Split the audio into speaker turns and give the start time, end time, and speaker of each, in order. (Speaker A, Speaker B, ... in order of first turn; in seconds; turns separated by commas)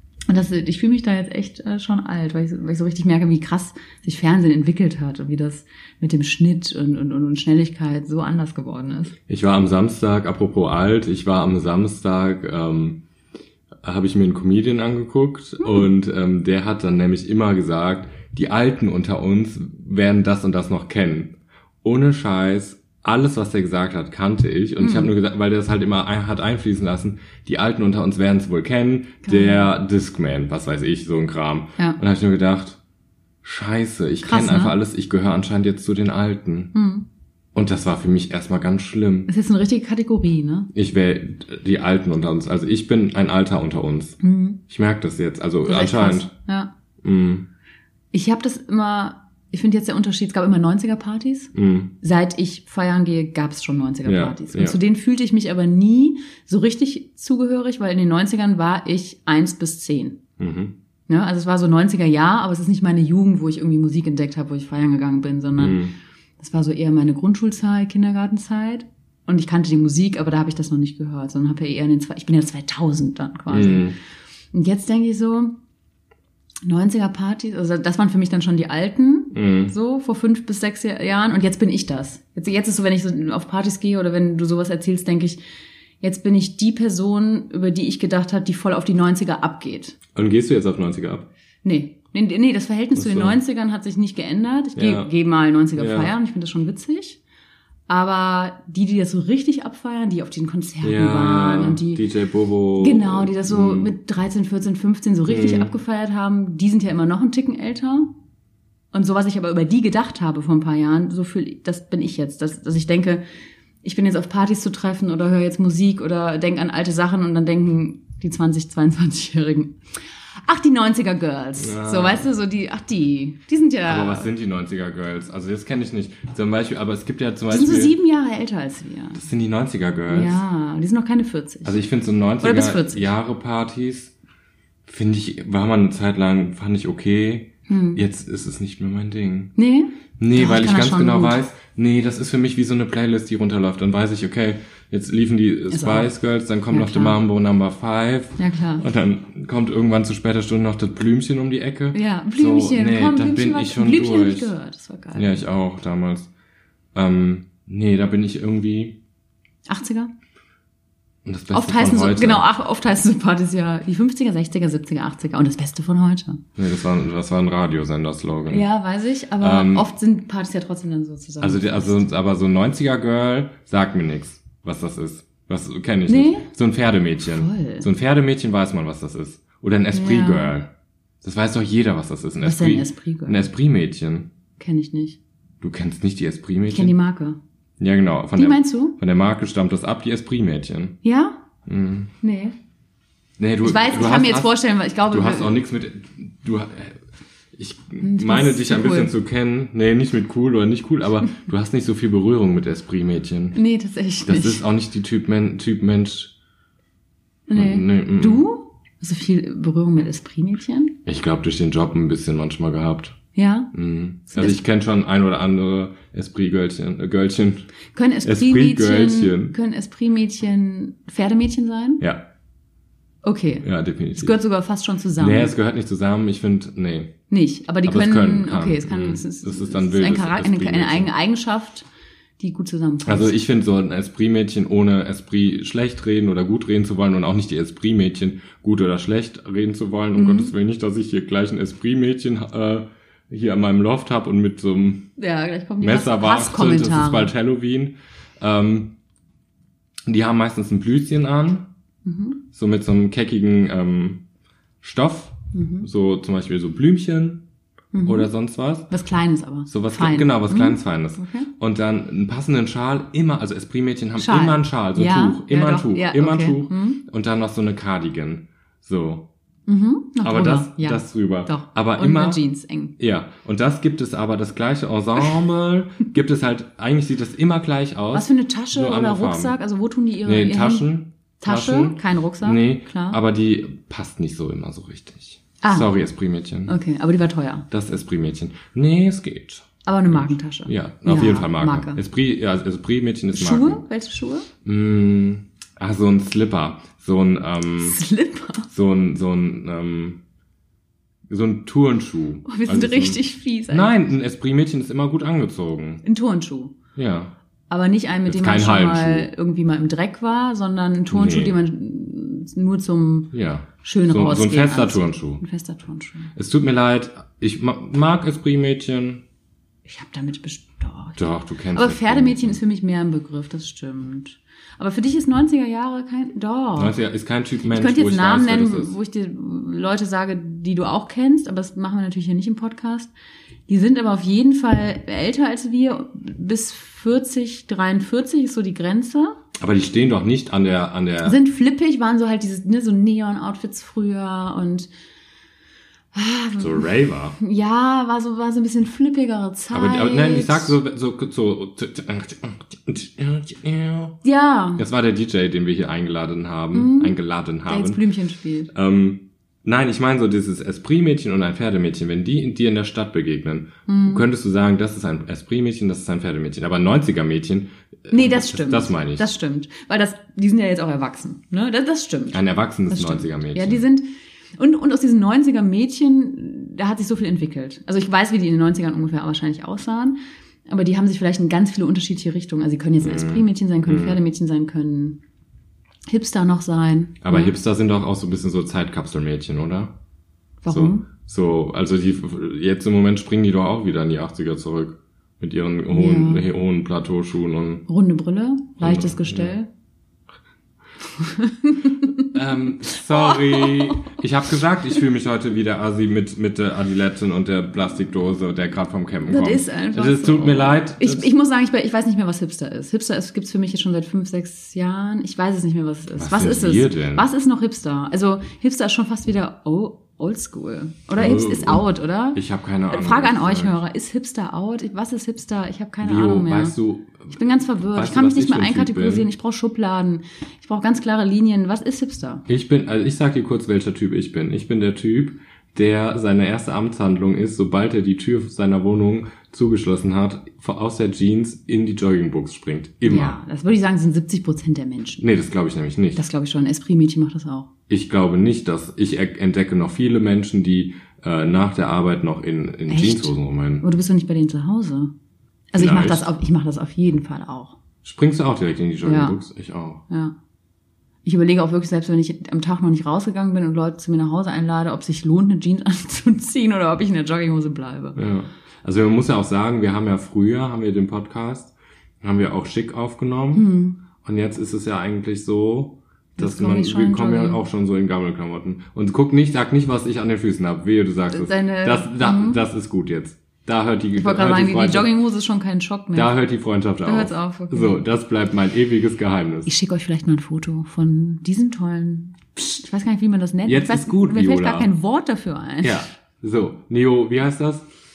Speaker A: 0.3-9.1, Speaker B: 9.3-13.0, Speaker B: 13.8-32.8, Speaker A: 24.8-25.1, Speaker A: 29.2-29.7, Speaker B: 33.4-36.7, Speaker A: 34.2-34.7, Speaker A: 36.7-37.0, Speaker B: 37.5-39.3, Speaker A: 39.3-40.7, Speaker B: 40.7-46.3, Speaker A: 44.2-44.6, Speaker A: 45.6-46.7, Speaker B: 47.0-47.5, Speaker A: 48.1-60.2, Speaker B: 51.5-51.9, Speaker B: 54.0-54.8, Speaker B: 60.4-60.7, Speaker A: 61.1-65.8, Speaker B: 65.6-65.9, Speaker A: 66.4-73.9, Speaker B: 73.5-73.9, Speaker A: 74.5-75.5, Speaker A: 76.6-85.4, Speaker B: 79.3-79.7, Speaker A: 86.0-90.0, Speaker B: 90.1-91.3, Speaker A: 91.6-97.2, Speaker B: 92.9-93.4, Speaker B: 94.8-95.1, Speaker B: 95.8-96.1, Speaker A: 97.9-102.0, Speaker B: 100.8-103.9, Speaker A: 102.8-108.1, Speaker B: 105.3-105.7, Speaker A: 108.9-113.2, Speaker A: 113.8-119.7, Speaker A: 120.4-124.3, Speaker B: 121.6-122.3, Speaker B: 123.8-127.9, Speaker A: 127.5-129.2, Speaker B: 129.1-130.4, Speaker A: 130.1-131.8, Speaker B: 131.6-134.1, Speaker A: 132.4-133.1, Speaker B: 134.9-139.5, Speaker A: 137.7-138.0, Speaker A: 139.6-141.4, Speaker B: 140.2-154.5, Speaker A: 145.7-146.1, Speaker A: 146.7-147.2, Speaker A: 148.4-148.8, Speaker A: 151.9-155.4, Speaker B: 155.1-156.3, Speaker B: 156.9-159.0, Speaker A: 159.7-160.1, Speaker B: 161.2-162.4, Speaker A: 161.5-166.4, Speaker B: 166.6-168.7, Speaker A: 168.5-172.1, Speaker B: 169.4-169.9, Speaker B: 171.4-180.7, Speaker A: 176.1-176.5, Speaker A: 177.2-177.9, Speaker A: 179.9-180.5, Speaker B: 181.2-184.3, Speaker A: 182.4-183.4, Speaker A: 184.6-185.2, Speaker B: 185.6-186.9, Speaker A: 186.7-187.4, Speaker B: 187.8-191.0, Speaker A: 188.3-189.0, Speaker A: 191.0-191.4, Speaker B: 191.7-192.1, Speaker A: 192.2-192.5, Speaker B: 193.4-197.0, Speaker A: 193.6-195.5, Speaker B: 197.6-203.6, Speaker A: 198.0-199.1, Speaker A: 203.5-204.6, Speaker B: 204.2-206.3, Speaker A: 207.5-211.0, Speaker B: 207.5-208.4, Speaker B: 211.1-213.2, Speaker A: 213.3-213.7, Speaker B: 213.7-217.7, Speaker A: 214.3-214.6, Speaker A: 217.9-222.0, Speaker B: 218.2-219.6, Speaker B: 222.0-222.3, Speaker A: 223.2-223.7, Speaker B: 223.6-224.3, Speaker A: 224.2-225.6, Speaker B: 225.2-227.1, Speaker A: 227.3-231.8, Speaker B: 227.8-231.1, Speaker A: 232.4-233.4, Speaker B: 233.0-245.1, Speaker A: 240.1-240.5, Speaker A: 245.2-247.3, Speaker B: 245.8-248.9, Speaker B: 250.1-251.7, Speaker A: 252.0-252.4, Speaker B: 252.5-254.2, Speaker B: 254.8-257.4, Speaker A: 255.5-255.9, Speaker A: 257.9-258.3, Speaker B: 258.0-258.9, Speaker A: 258.9-261.5, Speaker B: 259.7-269.3, Speaker A: 264.2-267.0, Speaker A: 269.7-272.9, Speaker B: 270.2-272.4, Speaker B: 273.0-279.6, Speaker A: 278.1-280.9, Speaker B: 280.2-286.7, Speaker A: 281.4-283.2, Speaker A: 285.6-285.9, Speaker A: 286.7-287.6, Speaker B: 287.7-293.8, Speaker A: 289.8-292.0, Speaker A: 293.3-294.5, Speaker B: 294.6-298.0, Speaker A: 297.8-298.7, Speaker B: 298.7-300.2, Speaker B: 301.3-306.0, Speaker A: 302.4-304.0, Speaker A: 306.0-306.8, Speaker B: 306.9-307.3, Speaker A: 307.7-313.3, Speaker B: 308.3-309.3, Speaker B: 311.1-311.6, Speaker B: 313.3-315.4, Speaker A: 313.8-316.3, Speaker B: 316.3-319.2, Speaker A: 319.8-326.9, Speaker B: 321.2-322.6, Speaker B: 326.8-328.9, Speaker A: 327.7-333.1, Speaker A: 333.7-339.4, Speaker B: 339.6-341.4, Speaker A: 341.2-344.9, Speaker A: 346.1-346.9, Speaker B: 346.6-347.4, Speaker A: 347.4-350.8, Speaker B: 349.7-354.2, Speaker A: 354.2-354.8, Speaker B: 354.8-358.0, Speaker A: 356.7-358.7, Speaker B: 358.7-369.3, Speaker A: 363.9-364.2, Speaker A: 368.1-374.1, Speaker B: 372.3-373.8, Speaker A: 374.6-385.2, Speaker B: 383.0-384.2, Speaker A: 386.1-387.5, Speaker B: 387.2-389.9, Speaker A: 390.6-391.1, Speaker B: 390.7-397.8, Speaker A: 395.9-396.4, Speaker A: 397.9-399.7, Speaker B: 398.8-399.6, Speaker A: 401.1-402.3, Speaker B: 402.3-411.3, Speaker A: 402.9-404.2, Speaker A: 409.3-426.8, Speaker B: 416.2-417.3, Speaker B: 421.1-423.8, Speaker B: 426.0-427.3, Speaker A: 427.3-432.4, Speaker B: 427.9-429.3, Speaker B: 432.5-443.4, Speaker A: 443.0-445.2, Speaker B: 445.2-446.2, Speaker A: 446.1-447.7, Speaker B: 447.9-453.8, Speaker A: 452.9-455.1, Speaker A: 455.7-457.8, Speaker B: 455.8-456.2, Speaker B: 458.0-460.0, Speaker A: 459.0-459.4, Speaker A: 460.1-460.3, Speaker A: 461.2-468.2, Speaker B: 468.1-473.6, Speaker A: 473.5-474.0, Speaker B: 474.2-485.1, Speaker A: 476.4-477.6, Speaker A: 481.3-482.6, Speaker A: 484.1-486.3, Speaker B: 486.1-489.7, Speaker A: 487.0-488.0, Speaker A: 489.6-496.1, Speaker B: 493.7-494.9, Speaker B: 495.8-497.9